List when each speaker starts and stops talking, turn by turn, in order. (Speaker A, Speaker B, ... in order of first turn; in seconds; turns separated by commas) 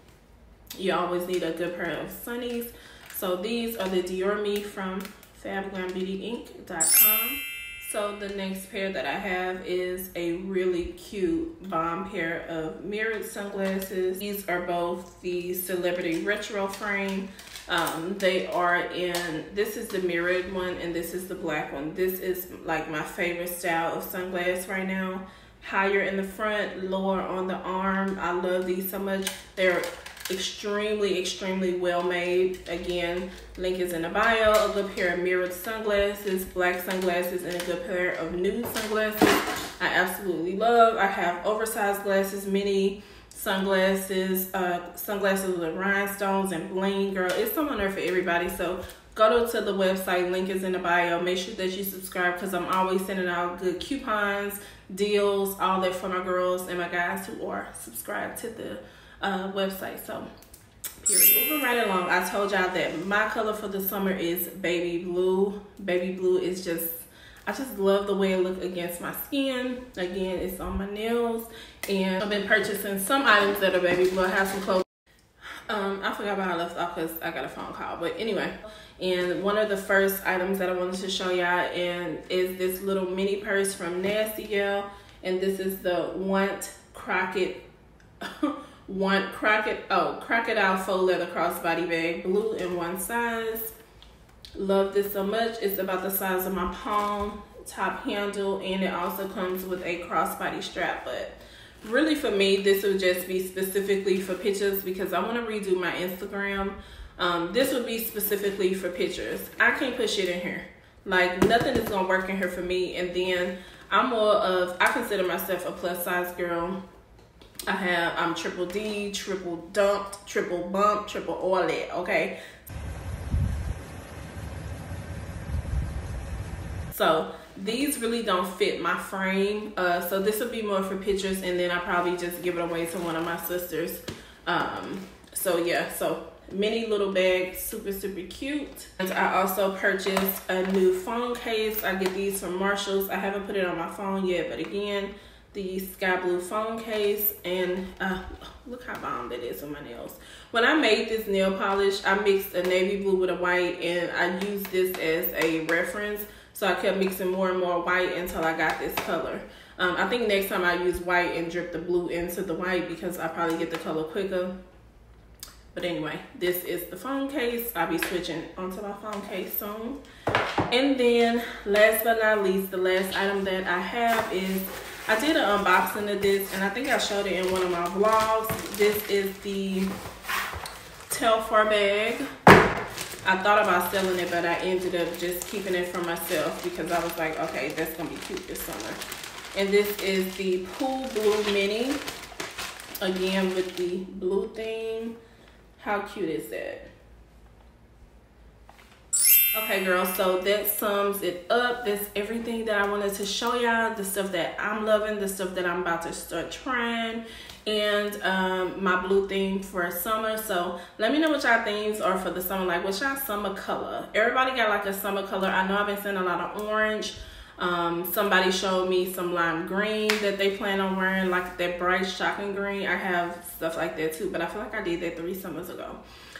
Speaker A: 0.8-60.3, Speaker A: 61.0-74.8, Speaker A: 75.7-87.6, Speaker A: 88.2-93.7, Speaker A: 94.5-116.8, Speaker A: 117.7-122.3, Speaker A: 126.9-164.5, Speaker A: 165.7-170.0, Speaker A: 170.7-179.9, Speaker A: 181.1-182.2, Speaker A: 183.2-189.0, Speaker A: 189.5-192.0, Speaker A: 193.0-195.2, Speaker A: 195.8-196.9, Speaker A: 199.5-226.0